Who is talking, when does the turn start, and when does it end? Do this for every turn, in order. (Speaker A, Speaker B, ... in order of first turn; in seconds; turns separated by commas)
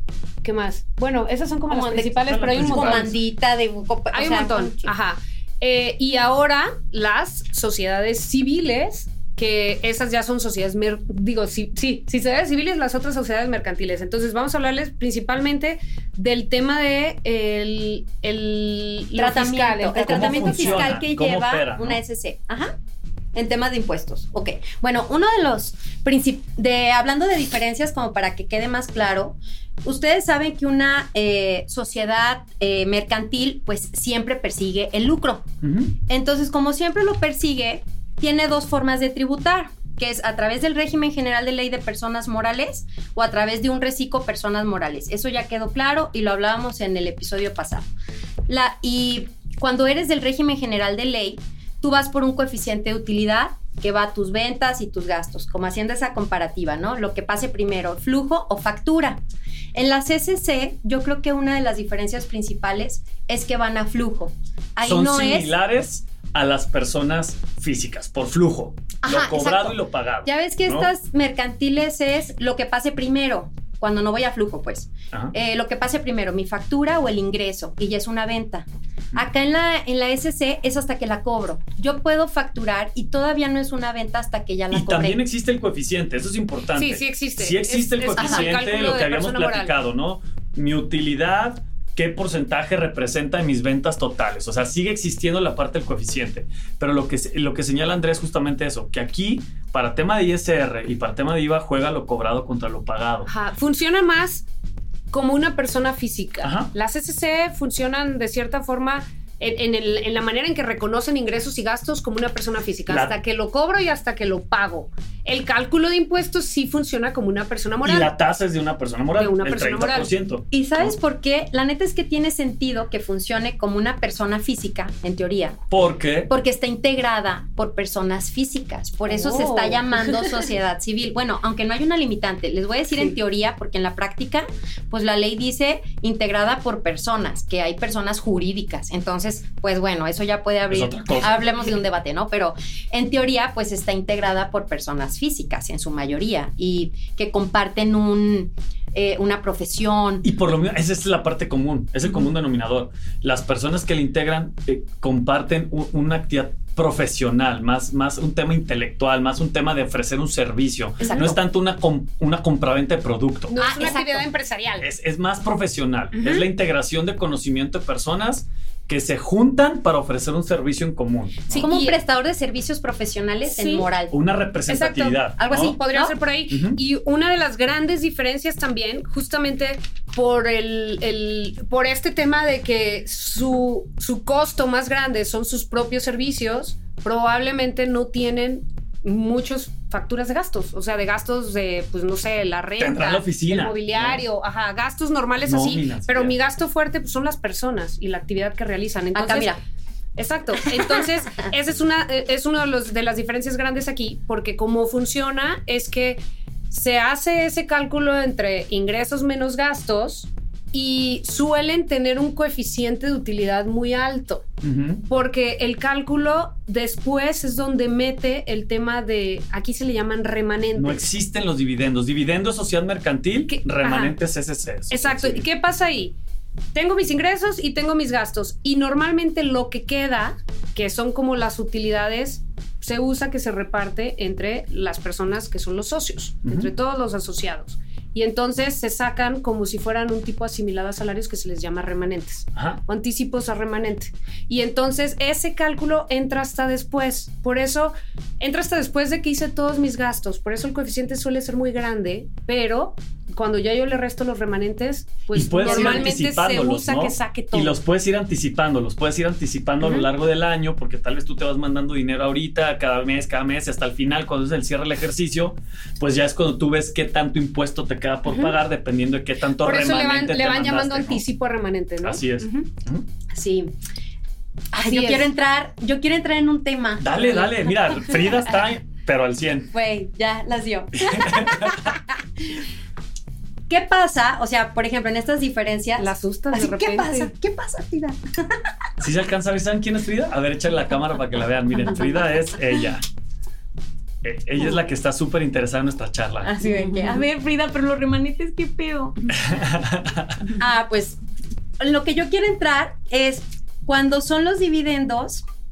Speaker A: 0.4-3.1, Speaker B: 1.7-4.9, Speaker C: 2.2-3.1, Speaker A: 4.1-21.0, Speaker B: 19.1-22.7, Speaker C: 20.1-22.0, Speaker B: 23.4-35.5, Speaker C: 35.6-35.9, Speaker B: 36.1-47.9, Speaker B: 48.5-59.2, Speaker B: 59.8-65.5, Speaker C: 64.8-70.9, Speaker B: 69.0-85.2, Speaker C: 84.7-103.3, Speaker A: 86.8-89.7, Speaker B: 88.2-88.5, Speaker A: 103.3-104.5, Speaker A: 105.1-118.1, Speaker C: 106.4-106.7, Speaker C: 112.9-113.2, Speaker C: 117.8-121.0, Speaker A: 119.2-120.1, Speaker B: 120.5-125.6, Speaker C: 125.7-126.3, Speaker B: 126.3-150.3, Speaker A: 129.1-130.1, Speaker C: 140.7-141.7, Speaker C: 150.2-164.0, Speaker B: 161.0-161.4, Speaker A: 163.5-164.8, Speaker B: 163.6-164.3, Speaker C: 164.8-171.7, Speaker B: 171.5-174.1, Speaker A: 171.5-172.0, Speaker A: 173.5-173.9, Speaker C: 174.1-175.8, Speaker A: 174.7-199.5, Speaker B: 175.4-176.2, Speaker C: 176.5-176.8, Speaker C: 192.8-194.2, Speaker C: 195.4-196.4, Speaker B: 199.1-199.6, Speaker A: 200.2-214.4, Speaker C: 214.6-215.1, Speaker A: 215.1-221.0, Speaker C: 220.8-225.4, Speaker A: 223.5-224.2, Speaker A: 224.9-226.2, Speaker A: 226.7-257.8, Speaker C: 236.4-236.7, Speaker C: 242.6-242.8, Speaker C: 255.3-271.2, Speaker B: 255.6-256.1, Speaker A: 268.3-268.5, Speaker A: 269.6-272.2, Speaker C: 272.0-273.1, Speaker B: 273.3-273.7, Speaker A: 274.7-275.3, Speaker B: 274.7-277.5, Speaker C: 277.0-279.7, Speaker B: 279.7-282.0, Speaker C: 280.9-281.9, Speaker B: 283.7-288.2, Speaker A: 286.0-287.3, Speaker C: 289.0-293.0, Speaker C: 294.2-296.5, Speaker B: 296.4-299.2, Speaker A: 296.8-297.2, Speaker C: 299.3-300.5, Speaker B: 300.6-301.2, Speaker B: 301.8-305.4